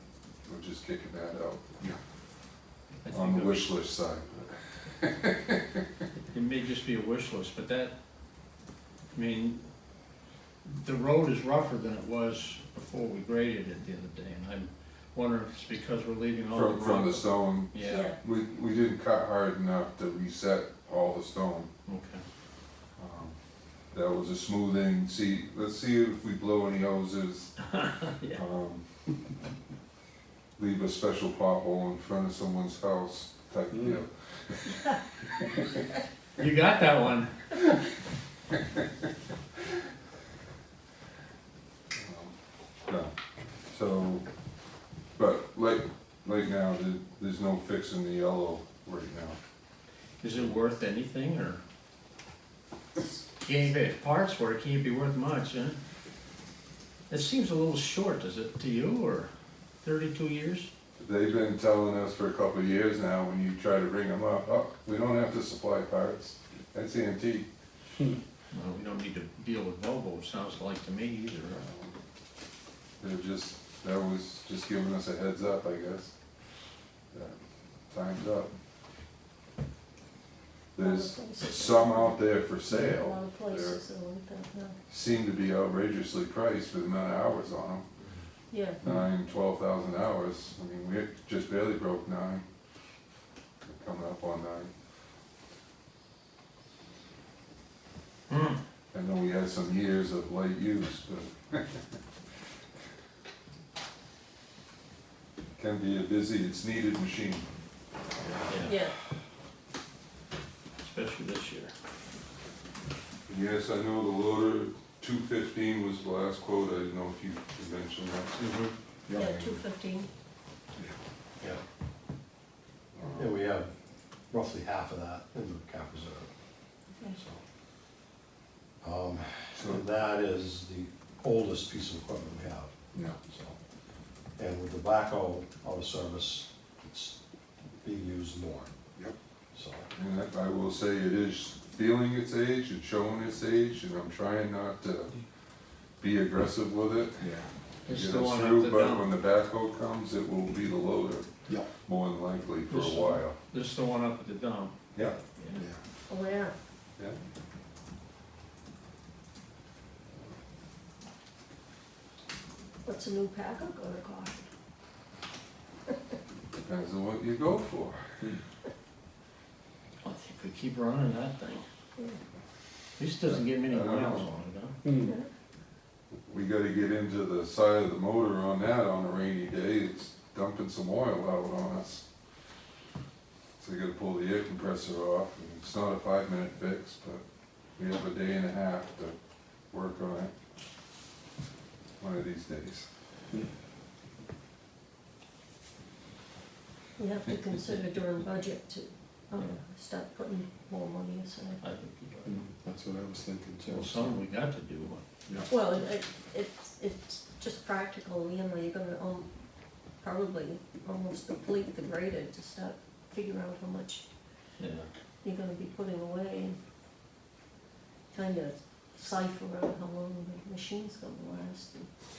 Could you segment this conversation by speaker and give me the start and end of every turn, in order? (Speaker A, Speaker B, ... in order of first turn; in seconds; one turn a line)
Speaker A: 0.5-1.7
Speaker B: 3.0-3.8
Speaker A: 3.1-5.6
Speaker B: 6.3-7.9
Speaker B: 9.1-9.6
Speaker B: 10.7-18.1
Speaker A: 16.5-21.7
Speaker C: 17.9-18.2
Speaker B: 21.9-22.2
Speaker A: 23.0-23.3
Speaker A: 23.9-27.8
Speaker A: 28.3-28.8
Speaker A: 30.6-35.7
Speaker B: 36.4-37.3
Speaker A: 38.5-38.9
Speaker A: 42.0-43.1
Speaker A: 43.7-44.2
Speaker A: 45.1-49.4
Speaker B: 50.2-51.6
Speaker B: 53.3-55.8
Speaker B: 57.1-59.3
Speaker B: 59.8-60.7
Speaker A: 61.0-67.5
Speaker B: 68.5-71.6
Speaker A: 71.5-72.0
Speaker A: 73.0-76.1
Speaker A: 77.1-77.4
Speaker A: 77.9-78.5
Speaker A: 80.7-83.8
Speaker C: 80.8-84.8
Speaker A: 84.9-87.9
Speaker C: 88.5-88.8
Speaker A: 88.8-92.4
Speaker A: 93.6-94.7
Speaker B: 98.3-98.6
Speaker A: 98.9-101.8
Speaker A: 105.6-107.5
Speaker B: 108.5-108.8
Speaker C: 108.6-108.9
Speaker B: 110.8-111.7
Speaker A: 113.3-118.5
Speaker B: 118.4-118.7
Speaker D: 119.1-119.5
Speaker C: 119.1-120.1
Speaker A: 122.9-123.3
Speaker E: 123.2-123.7
Speaker E: 124.3-126.3
Speaker E: 127.1-127.4
Speaker E: 128.8-133.6
Speaker A: 129.6-129.8
Speaker E: 134.4-137.2
Speaker E: 137.8-138.7
Speaker E: 139.5-139.9
Speaker A: 139.9-145.1
Speaker A: 146.0-147.2
Speaker D: 147.2-147.5
Speaker B: 147.9-149.1
Speaker A: 147.9-153.4
Speaker B: 152.7-154.8
Speaker D: 154.9-155.8
Speaker C: 156.1-156.5
Speaker C: 162.8-164.4
Speaker A: 166.6-168.0
Speaker B: 170.0-171.6
Speaker B: 173.0-174.8
Speaker A: 173.2-174.3
Speaker D: 174.8-175.1
Speaker C: 175.0-175.3
Speaker A: 176.3-182.0
Speaker A: 183.6-187.2
Speaker A: 187.8-189.1
Speaker A: 189.7-190.3
Speaker A: 192.0-192.9
Speaker C: 197.0-201.6
Speaker B: 201.6-202.4
Speaker D: 202.2-204.2
Speaker B: 203.7-205.1
Speaker C: 205.5-209.3
Speaker C: 210.0-214.0
Speaker B: 214.6-214.9
Speaker C: 215.2-216.6
Speaker C: 218.1-221.9